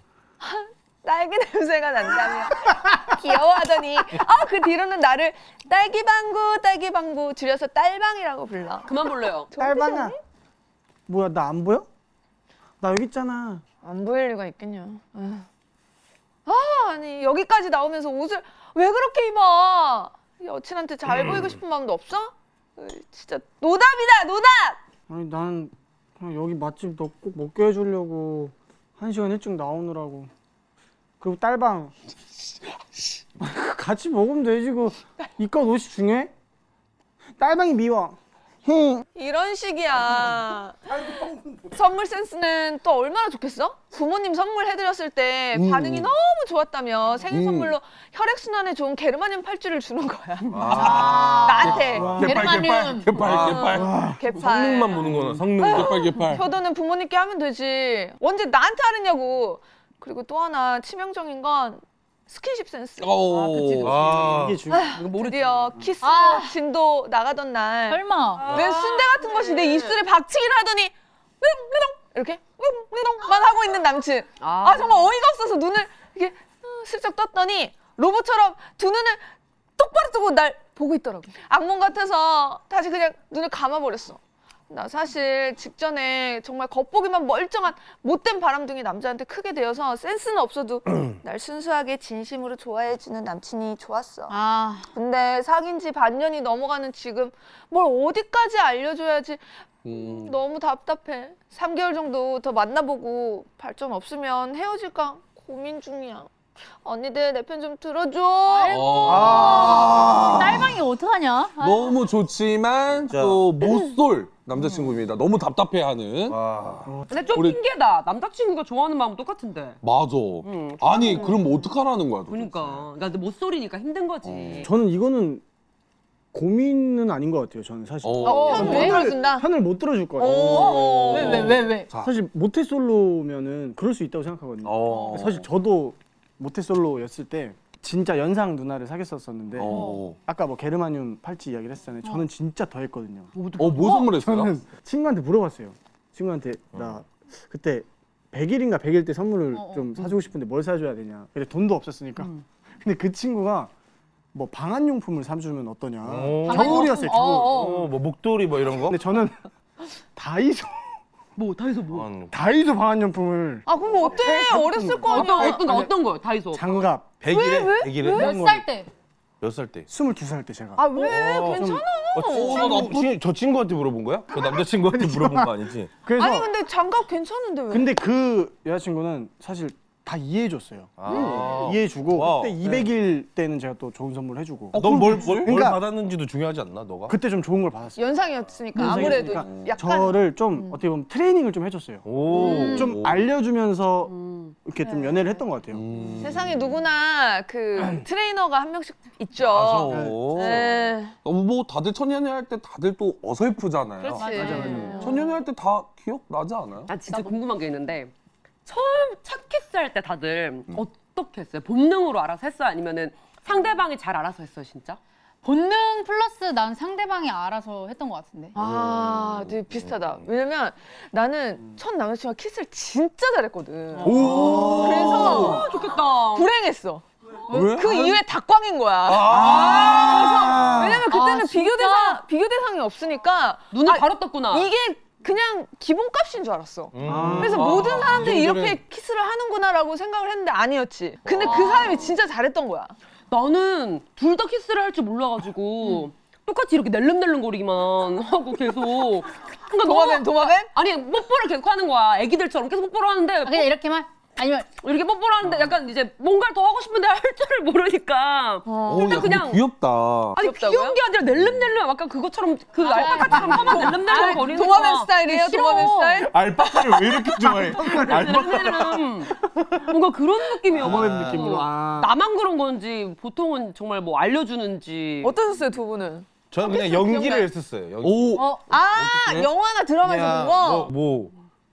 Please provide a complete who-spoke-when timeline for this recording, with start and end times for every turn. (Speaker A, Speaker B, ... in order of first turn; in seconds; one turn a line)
Speaker A: 0.4-10.2
Speaker B: 8.8-9.5
Speaker C: 9.6-10.1
Speaker C: 11.1-11.9
Speaker C: 12.8-13.6
Speaker A: 13.8-15.5
Speaker A: 16.4-24.8
Speaker C: 25.1-30.3
Speaker C: 31.2-31.9
Speaker C: 33.4-36.3
Speaker C: 37.4-39.0
Speaker A: 39.1-40.9
Speaker C: 40.9-41.8
Speaker A: 41.7-52.2
Speaker D: 45.5-46.1
Speaker D: 47.3-47.8
Speaker E: 50.5-51.2
Speaker D: 50.5-54.1
Speaker F: 50.7-53.3
Speaker C: 51.9-52.4
Speaker A: 53.2-63.8
Speaker C: 53.5-54.2
Speaker E: 54.3-56.1
Speaker D: 55.0-56.5
Speaker C: 55.1-55.4
Speaker D: 63.0-64.2
Speaker B: 63.5-64.1
Speaker E: 63.8-64.6
Speaker C: 63.8-65.0
Speaker A: 64.7-79.2
Speaker B: 64.8-65.7
Speaker F: 66.0-66.5
Speaker F: 67.9-68.7
Speaker B: 68.4-70.0
Speaker B: 74.4-75.1
Speaker A: 79.8-94.3
Speaker F: 94.3-94.9
Speaker A: 94.8-110.1
Speaker D: 99.8-100.3
Speaker F: 108.5-112.0
Speaker D: 108.7-110.8
Speaker E: 109.1-109.8
Speaker D: 111.6-117.6
Speaker E: 113.1-113.4
Speaker B: 114.6-114.8
Speaker E: 116.3-116.8
Speaker C: 116.8-117.1
Speaker B: 117.1-119.8
Speaker D: 119.8-122.9
Speaker B: 120.4-121.7
Speaker B: 122.3-124.7
Speaker D: 124.2-124.7
Speaker C: 124.6-125.4
Speaker C: 126.3-131.2
Speaker D: 128.0-129.0
Speaker A: 128.2-129.5
Speaker F: 128.3-129.1
Speaker A: 130.2-131.5
Speaker D: 130.2-132.1
Speaker F: 130.5-131.9
Speaker B: 130.5-130.9
Speaker C: 131.9-153.7
Speaker D: 134.6-135.4
Speaker D: 139.6-140.2
Speaker F: 139.6-140.1
Speaker B: 143.3-144.1
Speaker D: 143.6-144.5
Speaker F: 149.5-150.0
Speaker B: 152.2-152.4
Speaker C: 154.3-157.8
Speaker E: 156.1-159.0
Speaker F: 156.5-157.2
Speaker B: 156.5-157.8
Speaker C: 158.9-159.4
Speaker C: 159.9-160.9
Speaker B: 161.4-162.1
Speaker E: 161.9-162.3
Speaker C: 162.3-165.9
Speaker A: 163.7-165.8
Speaker B: 165.1-166.8
Speaker C: 166.5-167.2
Speaker E: 167.2-168.5
Speaker A: 167.3-168.2
Speaker F: 168.0-168.9
Speaker C: 168.1-168.6
Speaker E: 169.4-169.9
Speaker C: 169.9-171.8
Speaker A: 170.8-172.9
Speaker F: 171.0-171.2
Speaker E: 171.0-175.9
Speaker D: 172.2-173.1
Speaker C: 174.8-176.5
Speaker A: 176.2-177.9
Speaker C: 177.7-185.8
Speaker E: 181.0-182.9
Speaker E: 184.7-187.2
Speaker D: 184.7-185.6
Speaker C: 187.1-188.0
Speaker A: 188.0-190.8
Speaker C: 188.7-192.1
Speaker D: 188.9-189.7
Speaker E: 192.0-192.9
Speaker F: 192.3-192.9
Speaker C: 192.6-194.1
Speaker D: 192.8-193.2
Speaker B: 194.1-194.5
Speaker C: 194.6-195.8
Speaker A: 194.8-195.2
Speaker D: 195.7-196.8
Speaker A: 196.2-201.2
Speaker D: 199.4-206.9
Speaker C: 199.8-200.5
Speaker A: 204.0-205.2
Speaker F: 204.2-205.2
Speaker C: 204.3-205.0
Speaker B: 206.9-208.1
Speaker B: 208.7-215.0
Speaker F: 215.4-218.5
Speaker A: 218.5-225.7
Speaker D: 218.6-219.5
Speaker D: 224.0-225.7
Speaker B: 224.1-226.5
Speaker C: 224.3-225.5
Speaker A: 226.3-242.9
Speaker D: 227.5-228.2
Speaker D: 229.1-231.0
Speaker C: 229.3-231.0
Speaker F: 231.1-232.2
Speaker B: 233.7-234.7
Speaker E: 236.9-238.8
Speaker C: 237.0-237.8
Speaker D: 237.6-238.2
Speaker E: 241.2-241.9
Speaker B: 241.4-242.1
Speaker B: 243.3-253.7
Speaker A: 249.8-250.7
Speaker F: 253.4-254.7
Speaker B: 254.8-259.6
Speaker A: 258.6-259.4
Speaker D: 258.9-260.4
Speaker B: 260.4-265.1
Speaker A: 260.4-261.0
Speaker F: 262.8-266.3
Speaker A: 263.4-267.6
Speaker E: 266.3-269.0
Speaker C: 267.4-268.5
Speaker B: 267.8-269.3
Speaker B: 269.9-275.4
Speaker C: 270.7-272.1
Speaker E: 270.8-271.4
Speaker A: 275.2-277.5
Speaker E: 276.5-278.4
Speaker D: 278.0-279.5
Speaker F: 278.3-278.6
Speaker A: 278.7-280.9
Speaker E: 280.0-281.3